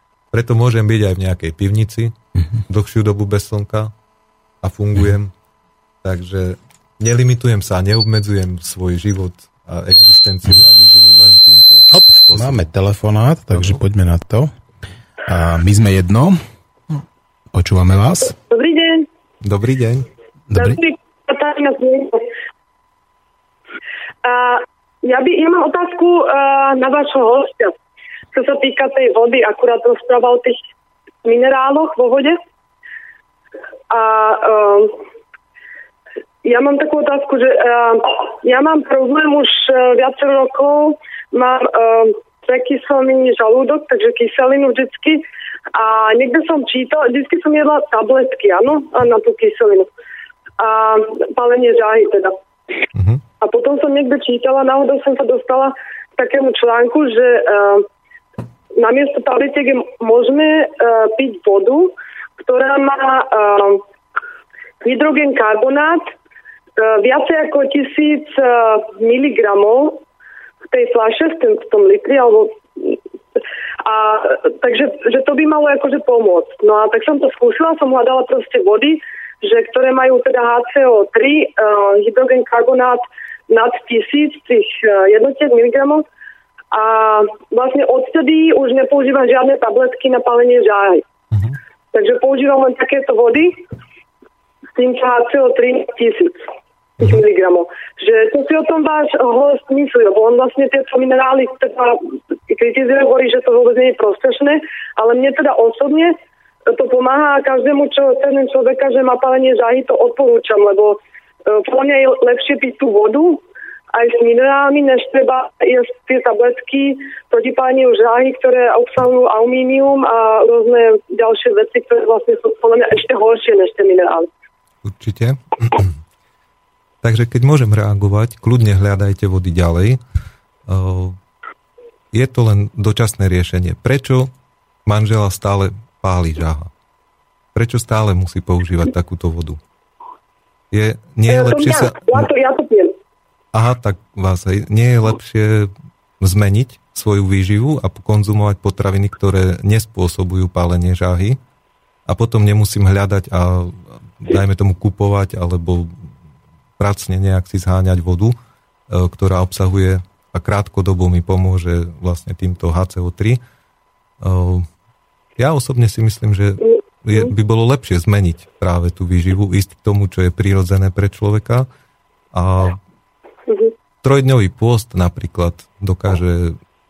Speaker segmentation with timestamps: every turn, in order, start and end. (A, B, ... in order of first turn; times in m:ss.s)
0:00.3-0:02.2 A
0:02.7-0:03.9 A
0:04.6-0:05.3 A
0:06.0-0:12.7 A
0:11.9-0:14.5 B
0:13.5-0:13.8 A
0:15.3-0:16.4 B
0:17.5-0:18.4 B
0:18.5-0:19.1 C
0:19.4-0:20.1 A
0:20.5-0:20.8 B
0:20.6-0:22.3 C
0:24.2-0:27.7 C
0:28.3-0:30.6 C
0:31.2-0:32.4 C
0:33.9-0:35.0 C
0:36.4-0:49.9 C
0:50.6-0:52.3 C
0:53.0-0:53.2 A
0:53.4-0:57.9 C
0:58.8-1:03.8 C
1:04.8-1:06.1 C
1:06.8-1:10.0 C
1:10.7-1:13.0 C
1:13.8-1:26.0 C
1:26.7-1:31.0 C
1:31.9-1:33.6 C
1:34.8-1:36.4 C
1:37.0-1:46.2 C
1:46.7-1:53.4 C
1:53.9-2:04.3 C
2:04.8-2:05.9 A
2:07.0-2:10.0 A
2:10.7-2:11.2 A
2:12.1-2:14.3 A
2:14.9-2:16.7 A
2:17.5-2:19.6 A
2:20.7-2:22.3 A
2:21.3-2:23.0 C
2:23.5-2:31.4 A
2:32.1-2:36.1 A
2:36.8-2:38.4 A
2:38.9-2:43.4 A
2:44.2-2:44.7 A
2:45.4-2:51.7 A
2:52.3-2:52.8 A
2:53.5-2:53.7 C
2:54.0-2:56.6 A